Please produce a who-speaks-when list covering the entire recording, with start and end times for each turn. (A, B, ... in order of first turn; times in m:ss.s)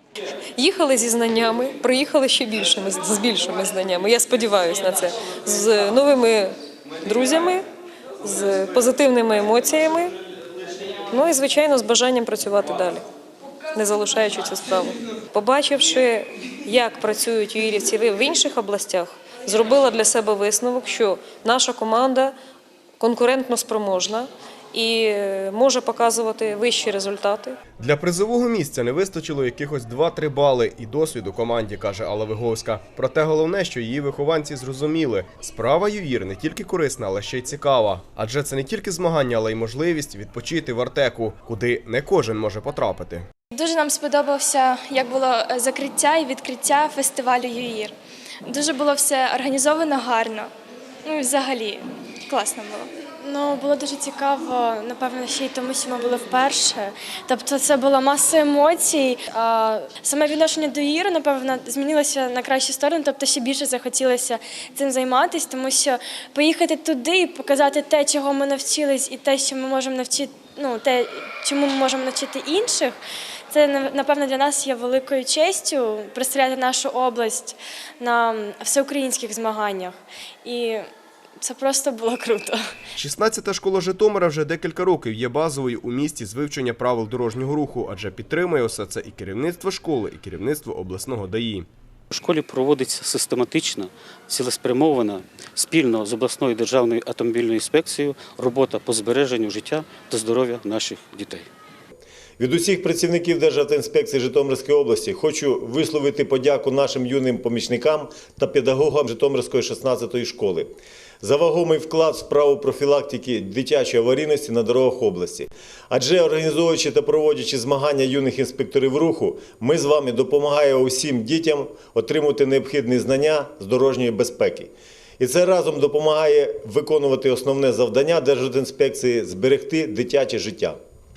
0:00.6-0:07.6 A
0:08.2-0:10.1 A
0:11.1-0:13.1 A
0:13.8-0:22.3 A
0:23.0-0:27.6 A
0:27.8-0:43.3 B
0:43.5-0:50.5 C
0:51.1-0:52.9 C
0:53.2-1:13.0 D
1:13.5-1:20.8 D
1:21.4-1:22.7 D
1:23.0-1:31.7 B
1:32.1-1:41.5 E
1:42.4-2:10.8 F